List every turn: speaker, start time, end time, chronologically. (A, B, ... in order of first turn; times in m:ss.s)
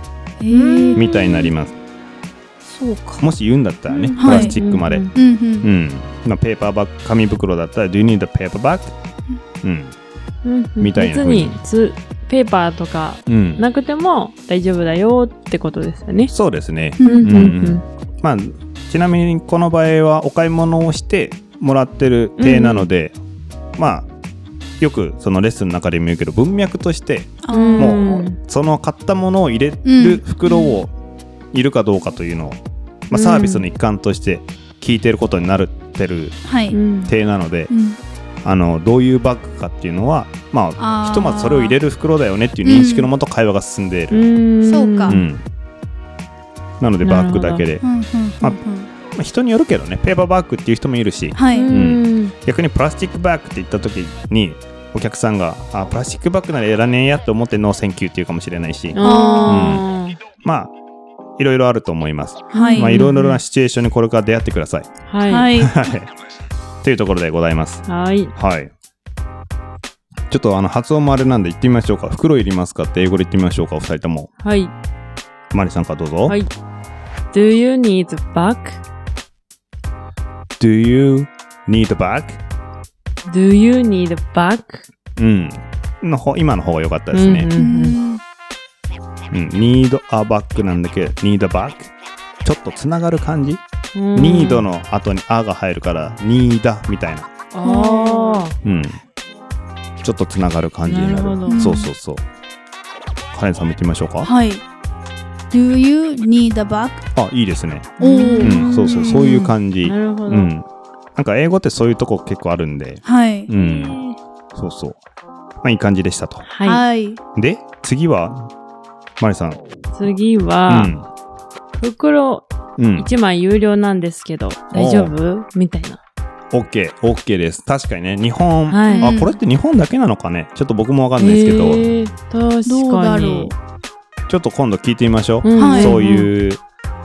0:00.4-0:01.0 A
0:00.5-0:01.5 B
0:01.0-0:01.8 C
0:02.6-0:03.2 A
0:03.2-0:08.9 C
0:03.9-0:05.1 B
0:04.2-0:04.6 A
0:05.1-0:05.7 A
0:09.6-0:10.0 C
0:10.4-0:16.3 B
0:10.8-0:11.6 C
0:13.3-0:13.6 C
0:16.3-0:23.2 C
0:17.0-0:17.5 A
0:17.0-0:17.8 B
0:22.4-0:22.9 B
0:23.8-0:24.1 C
0:24.8-0:30.9 C
0:27.4-0:28.2 A
0:27.5-0:28.4 B
0:29.8-0:30.8 A
0:31.5-0:36.4 C
0:33.1-0:33.6 B
0:36.4-0:36.8 A
0:36.7-0:37.1 B
0:37.1-0:37.7 C
0:37.7-0:38.0 A
0:38.4-0:44.2 C
0:40.8-0:41.8 A
0:42.6-0:43.1 A
0:44.1-0:45.2 B
0:44.6-0:45.2 A
0:45.1-0:45.4 C
0:46.8-0:47.8 C
0:47.0-0:47.6 B
0:47.8-0:48.9 A
0:49.1-0:59.8 C
0:51.3-0:51.7 A
0:51.5-0:52.3 B
0:58.9-1:00.2 B
0:59.0-0:59.8 A
1:00.4-1:00.7 C
1:01.4-1:04.9 C
1:02.5-1:03.0 A
1:02.5-1:03.4 B
1:05.1-1:05.5 B
1:05.3-1:05.8 A
1:05.6-1:06.1 C
1:06.8-1:08.7 C
1:07.9-1:08.3 B
1:10.3-1:14.3 C
1:14.4-1:14.7 B
1:15.5-1:16.4 C
1:17.3-1:18.8 B
1:20.6-1:22.4 C
1:23.3-1:24.9 B
1:25.2-1:27.5 C
1:27.1-1:28.0 B
1:27.6-1:28.2 A
1:29.3-1:31.9 C
1:32.4-1:33.6 C
1:34.0-1:34.6 B
1:34.2-1:37.3 C
1:37.5-1:38.6 B
1:37.6-1:38.5 A
1:38.6-1:39.0 C
1:40.0-1:42.2 C
1:40.9-1:41.8 B
1:41.5-1:41.9 A
1:43.3-1:44.3 C
1:44.2-1:44.6 A
1:45.5-1:47.0 A
1:47.2-1:54.0 C
1:48.0-1:49.4 A
1:48.0-1:50.5 B
1:53.0-1:53.5 A
1:53.6-1:54.2 B
1:54.6-1:55.0 C
1:55.6-1:56.5 C
1:56.5-1:56.8 B
1:56.6-1:57.2 A
1:57.4-1:58.5 C
1:59.2-1:59.6 C
2:00.0-2:00.9 B
2:00.7-2:01.0 C
2:01.8-2:02.5 B
2:02.8-2:03.1 C
2:03.0-2:06.0 B
2:04.7-2:05.2 C
2:06.5-2:11.9 C
2:08.7-2:09.1 B
2:08.9-2:09.4 A
2:11.2-2:13.5 B
2:12.7-2:13.6 A
2:14.3-2:16.6 C
2:15.4-2:16.3 B
2:15.6-2:16.0 A